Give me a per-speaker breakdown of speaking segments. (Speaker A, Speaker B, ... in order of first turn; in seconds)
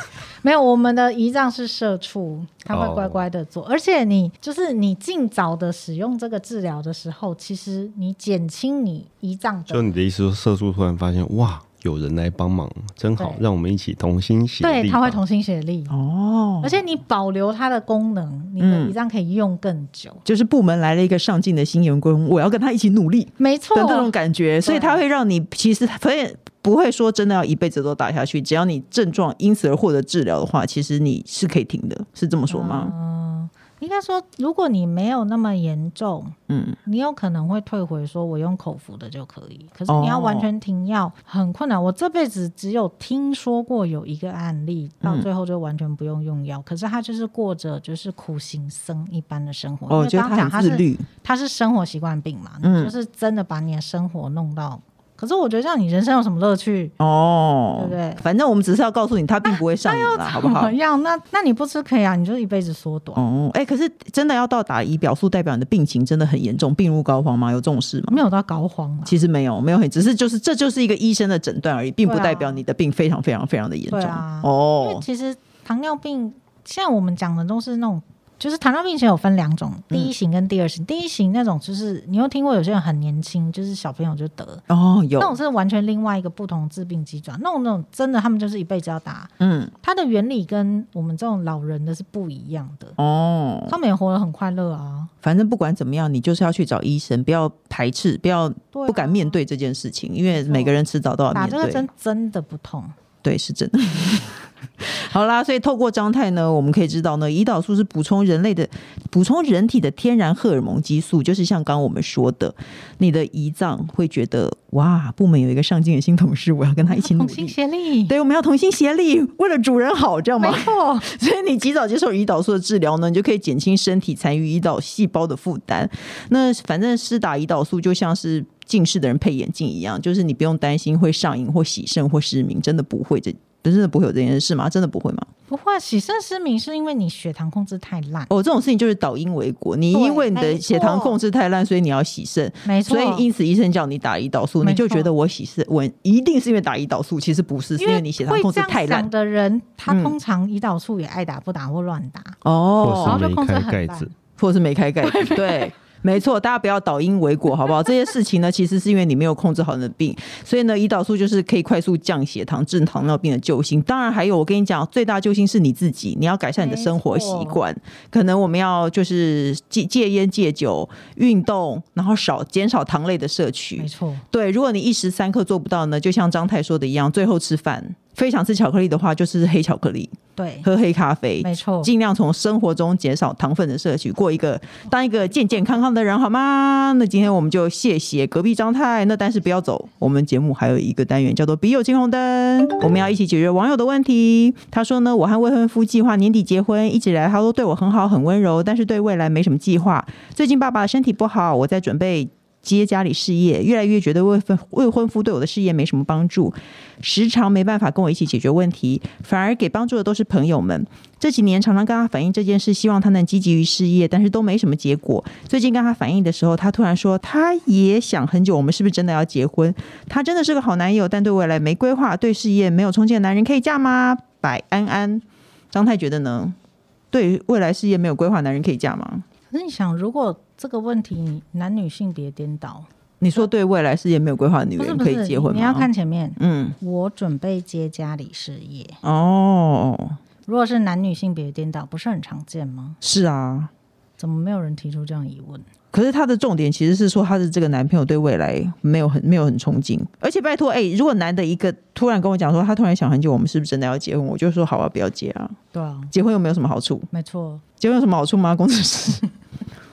Speaker A: 0.4-9.9, 14.6-15.9, 16.6-20.2, 23.4-24.1, 24.6-25.0, 32.5-56.9, 57.8-58.2, 59.4-63.2, 68.1-69.2, 72.0-72.6, 73.9-84.6, 85.2-89.3, 89.8-93.0, 93.7-95.1, 98.7-99.3, 100.3-100.7, 101.3-102.9, 117.0-118.1, 120.4-121.1, 135.5-138.3, 139.9-141.2, 142.7-143.2, 144.6-145.1, 147.8-152.4, 153.0-154.1, 155.0-155.7, 166.6-167.6, 173.8-174.2, 180.4-180.7, 181.4-181.9, 229.5-233.5, 234.8-239.0, 240.5-243.0, 244.2-245.6, 255.7-256.1, 257.1-257.6
Speaker B: 2.7-3.2, 9.7-15.2, 152.8-154.1
Speaker C: 15.9-16.8, 18.6-18.9, 20.3-32.9, 36.5-36.8, 39.9-40.5, 45.0-45.3, 49.9-51.1, 52.6-52.9, 57.0-60.8, 63.2-68.2, 69.1-75.0, 84.7-85.4, 89.4-89.7, 93.0-93.8, 95.2-101.9, 103.2-117.5, 118.1-135.3, 138.3-149.1, 149.9-150.2, 152.4-153.2, 154.4-226.6, 227.1-229.2, 233.2-236.8, 239.0-240.2, 243.0-243.7, 245.9-255.6, 256.1-257.1, 257.8-259.3